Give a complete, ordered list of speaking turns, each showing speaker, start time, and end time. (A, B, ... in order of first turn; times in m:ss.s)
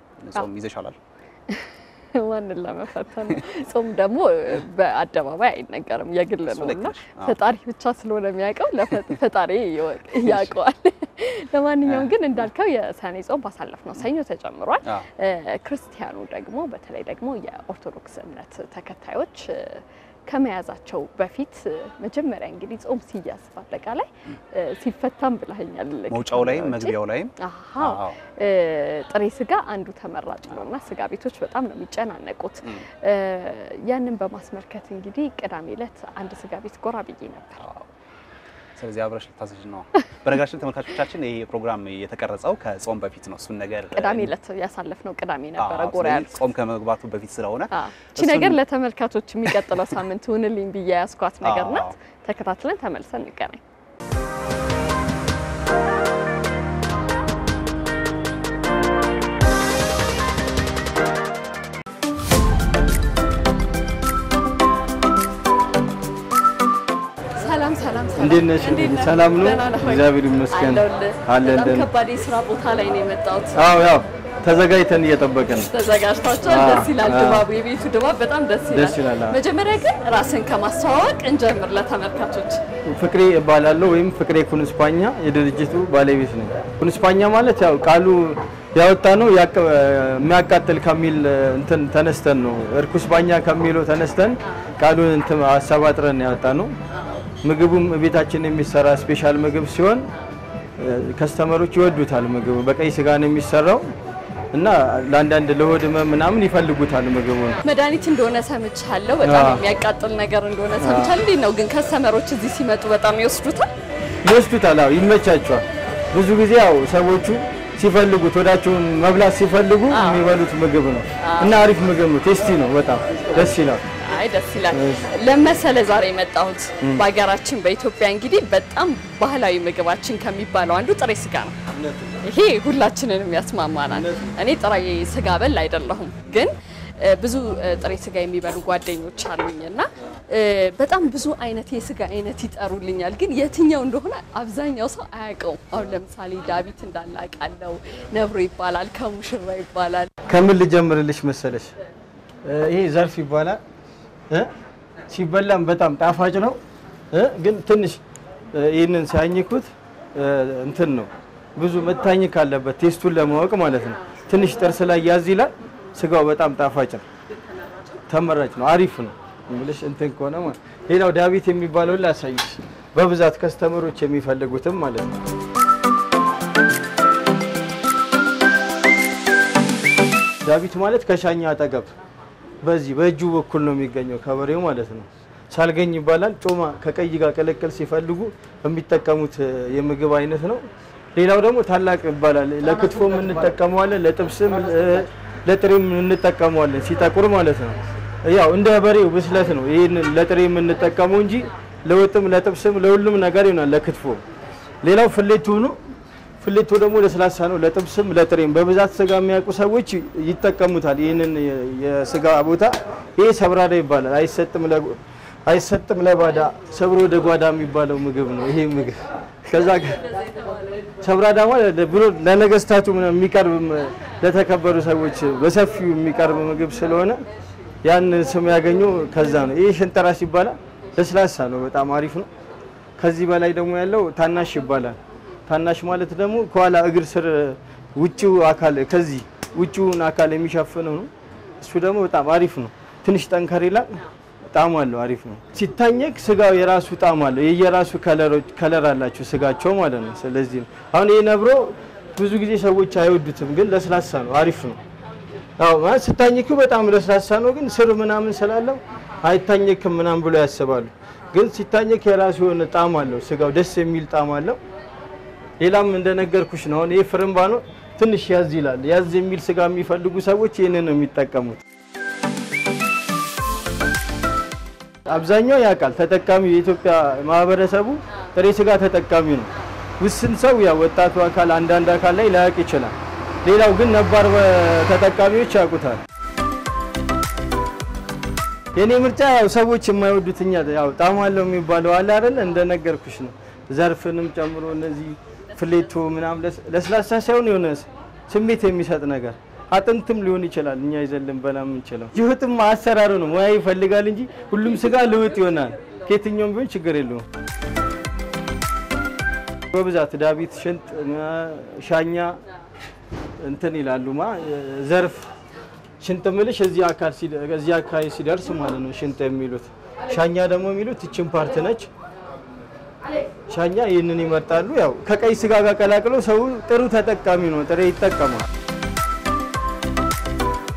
0:00.2-0:01.0 A
0:02.1-0:37.6 B
0:06.5-0:07.4 A
0:26.1-0:28.1 A
0:37.6-0:37.9 A
0:38.8-0:44.3 A
0:43.9-0:46.4 B
0:45.6-0:48.6 A
0:47.7-0:53.6 B
0:51.4-0:51.9 A
1:07.4-1:13.6 B
1:08.2-1:11.9 C
1:13.5-1:15.7 C
1:15.6-1:22.6 B
1:16.5-1:17.5 C
1:18.7-1:19.4 C
1:22.8-1:36.7 C
1:37.4-1:40.1 C
1:40.8-1:43.9 C
1:44.5-1:47.6 C
1:47.6-1:53.7 B
1:49.2-1:49.6 C
1:50.8-1:51.2 C
1:54.2-2:03.8 C
1:59.9-2:00.3 B
2:01.2-2:01.6 B
2:03.9-2:11.6 B
2:04.7-2:05.0 C
2:12.2-2:30.1 B
2:13.9-2:14.3 C
2:30.2-2:31.7 C
2:32.4-2:33.6 C
2:35.1-2:36.6 C
2:37.1-2:38.0 C
2:38.5-2:47.0 C
2:48.1-2:55.1 C
3:00.4-3:01.9 C
3:02.6-3:10.6 C
3:11.1-3:24.2 C
3:24.8-3:25.8 C
3:26.4-3:40.2 C
3:41.0-3:47.2 C
3:47.8-3:52.3 C
3:53.0-4:01.1 C
4:01.6-4:04.0 C
4:04.5-4:14.8 C
4:15.6-4:24.6 C
4:25.6-4:31.6 C
4:35.0-4:46.0 C
4:48.7-5:07.2 C
5:09.7-5:12.4 C
5:13.4-5:15.3 C
5:16.0-5:21.9 C
5:23.5-5:28.4 C